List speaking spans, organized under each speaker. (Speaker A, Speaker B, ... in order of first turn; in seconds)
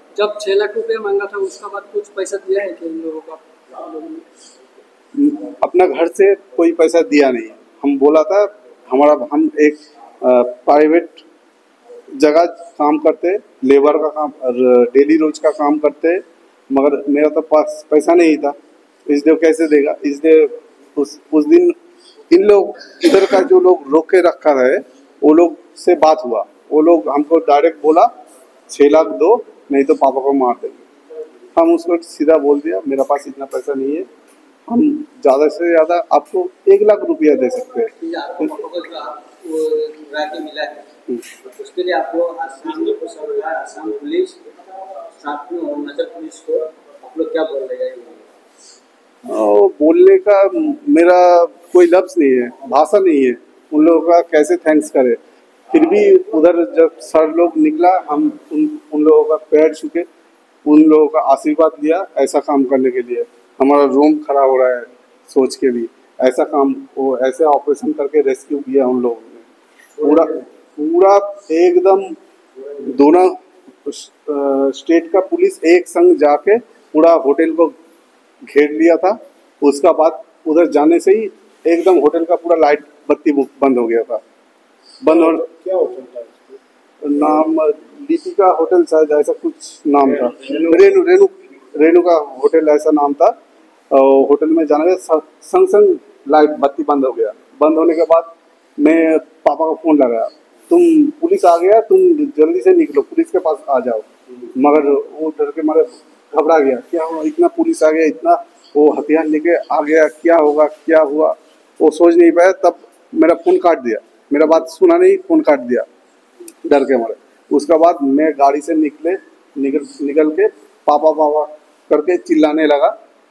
Speaker A: 0.1-3.4
Speaker B: 5.1-11.2, 12.2-18.6, 19.1-21.7, 22.3-28.1, 28.7-30.8, 31.6-34.1, 34.7-37.9, 49.2-55.2, 55.7-60.0, 60.6-69.5, 70.0-72.2, 72.8-77.7, 78.5-84.2, 85.0-85.4, 87.0-93.3, 93.9-115.8, 116.6-122.9
Speaker C: 38.0-40.8, 41.4-44.4, 45.1-48.2
Speaker D: 85.1-86.5, 90.2-90.7